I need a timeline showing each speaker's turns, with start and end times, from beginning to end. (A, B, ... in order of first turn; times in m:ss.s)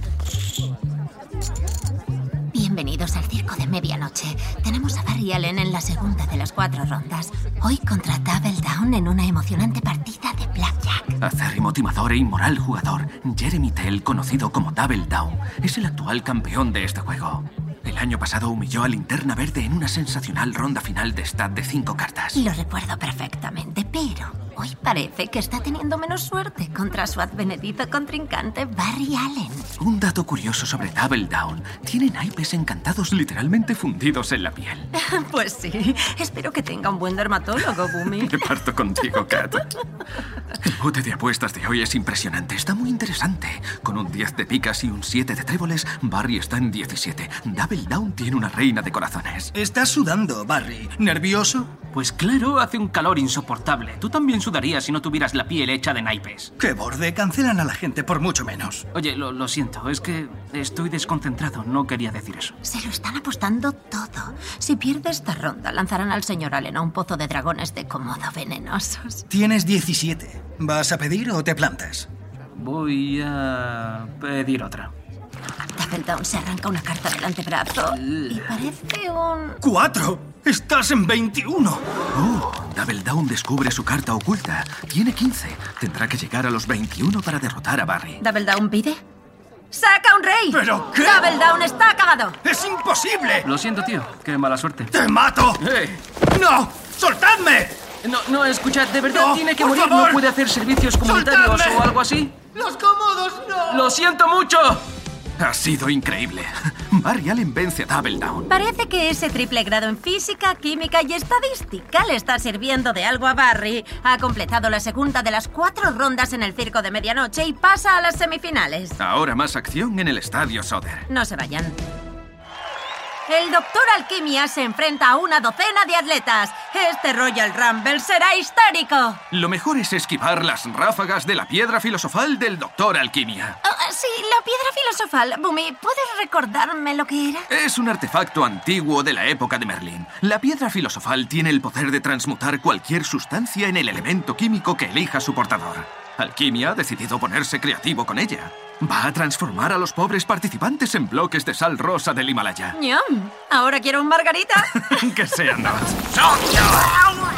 0:02.5-0:11.1 A
0:11.2-0:22.4 B
0:22.4-0:29.7 A
0:29.8-0:34.9 B
0:34.9-0:38.5 A
0:38.0-0:39.7 B
0:40.6-0:49.5 B
0:49.6-0:51.7 C
0:51.9-0:56.5 D
0:56.6-0:58.8 C
0:58.9-1:02.6 D
1:02.6-1:09.2 A
1:09.3-1:12.1 C
1:12.6-1:14.9 D
1:15.8-1:19.6 A
1:18.0-1:18.4 D
1:19.6-1:21.8 C
1:22.1-1:28.2 B
1:28.2-1:29.0 A
1:29.7-1:32.4 A
1:30.5-1:31.4 C
1:32.4-1:33.4 C
1:33.4-1:34.9 D
1:34.9-1:35.6 C
1:35.6-1:36.0 D
1:36.3-1:37.8 C
1:38.0-1:42.4 D
1:39.0-1:40.2 C
1:41.0-1:41.9 C
1:42.5-1:43.6 C
1:43.7-1:44.8 D
1:45.4-1:48.5 B
1:48.5-1:58.9 A
1:59.0-2:01.1 B
2:01.1-2:01.8 A
2:03.3-2:09.2 A
2:09.3-2:13.6 B
2:13.6-2:17.5 A
2:17.5-2:32.8 B
2:32.8-2:34.9 A
2:34.7-2:36.2 B